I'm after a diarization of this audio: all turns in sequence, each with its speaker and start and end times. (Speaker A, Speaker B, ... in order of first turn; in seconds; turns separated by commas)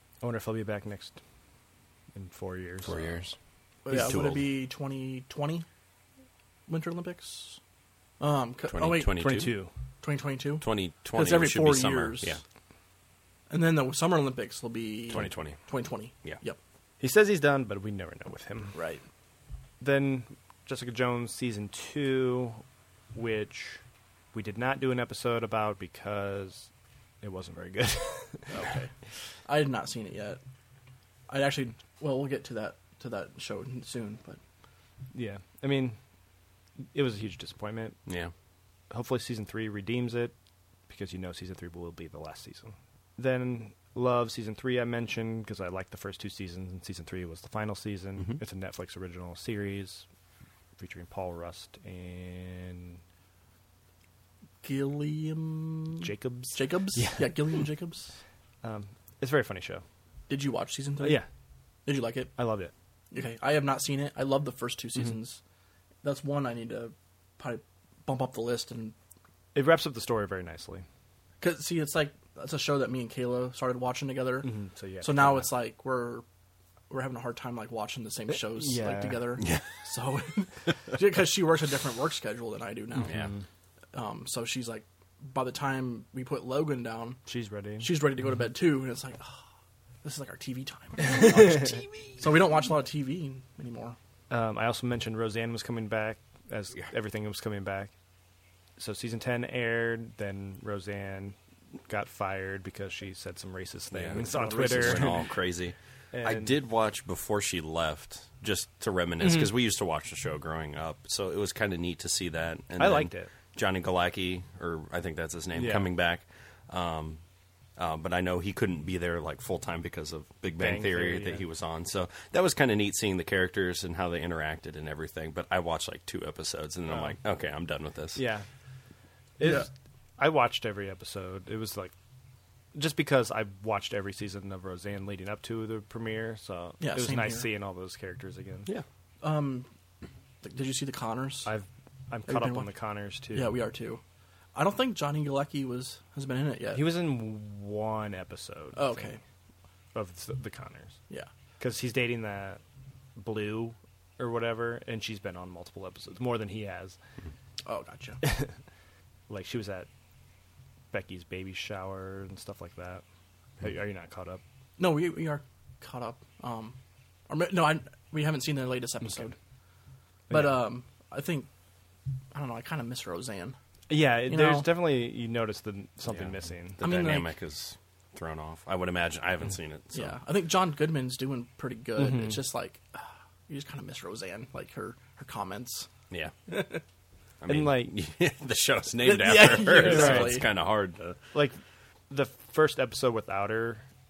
Speaker A: 0.2-1.2, Speaker A: 2.1-3.0, Speaker B: 2.8-3.4, Speaker C: 3.8-5.7, Speaker B: 3.9-4.5, Speaker C: 6.7-7.6, Speaker C: 8.2-9.2, Speaker B: 8.7-9.5, Speaker A: 9.2-9.7, Speaker C: 10.0-12.4, Speaker B: 10.6-12.4, Speaker C: 13.5-16.6, Speaker B: 15.1-15.6, Speaker A: 17.0-18.8, Speaker C: 18.7-19.0, Speaker A: 19.8-22.6, Speaker A: 23.1-23.8, Speaker A: 24.3-26.7, Speaker A: 27.2-28.5, Speaker C: 28.5-28.9, Speaker C: 29.4-30.4, Speaker C: 31.3-34.4, Speaker A: 35.1-36.0, Speaker A: 36.9-38.0, Speaker B: 38.0-38.3, Speaker A: 38.9-40.3, Speaker A: 40.9-50.0, Speaker A: 50.8-53.0, Speaker C: 54.6-58.1, Speaker A: 56.0-57.5, Speaker A: 58.6-59.8, Speaker C: 60.3-61.2, Speaker A: 61.0-61.3, Speaker C: 61.9-62.3, Speaker A: 62.4-62.7, Speaker C: 63.1-65.4, Speaker C: 66.0-68.9, Speaker A: 69.5-70.8, Speaker C: 71.4-76.2, Speaker A: 74.4-75.5, Speaker C: 76.9-83.2, Speaker A: 78.3-79.2, Speaker B: 79.4-79.7, Speaker A: 83.0-83.4, Speaker B: 83.0-83.3, Speaker C: 83.9-87.2, Speaker A: 87.3-87.9, Speaker C: 87.8-89.4, Speaker C: 90.0-94.0, Speaker A: 91.0-91.8, Speaker A: 94.3-97.9, Speaker A: 98.8-105.2, Speaker B: 103.9-117.2, Speaker C: 104.2-105.2, Speaker A: 106.1-106.5, Speaker A: 112.8-113.3, Speaker A: 115.5-115.9, Speaker B: 117.8-128.2, Speaker A: 120.6-121.4, Speaker A: 126.9-127.1, Speaker A: 128.2-128.4, Speaker A: 129.4-131.9, Speaker C: 129.4-129.7, Speaker A: 132.7-138.7, Speaker C: 136.8-137.5, Speaker C: 139.2-139.7, Speaker C: 140.4-141.5, Speaker A: 141.4-143.5, Speaker C: 142.3-142.7, Speaker C: 143.3-144.0, Speaker C: 144.5-146.9, Speaker A: 146.7-149.1, Speaker C: 148.7-149.2, Speaker A: 149.9-151.0, Speaker A: 151.6-152.6, Speaker A: 153.2-157.0, Speaker C: 157.6-158.2, Speaker A: 158.2-158.5, Speaker A: 159.3-159.9, Speaker A: 160.9-163.0, Speaker A: 163.6-164.4, Speaker C: 164.8-166.8, Speaker C: 167.3-169.3, Speaker A: 169.0-169.3, Speaker A: 170.3-170.6, Speaker C: 170.3-171.5, Speaker C: 172.3-173.6, Speaker A: 173.9-176.8, Speaker C: 174.3-174.7, Speaker B: 176.1-180.2, Speaker C: 176.8-177.3, Speaker C: 179.9-185.9, Speaker A: 182.0-182.4, Speaker B: 186.1-186.3, Speaker C: 186.5-186.8, Speaker B: 187.4-191.2, Speaker A: 187.5-187.9, Speaker C: 189.0-190.5, Speaker A: 189.8-190.4, Speaker A: 192.1-193.8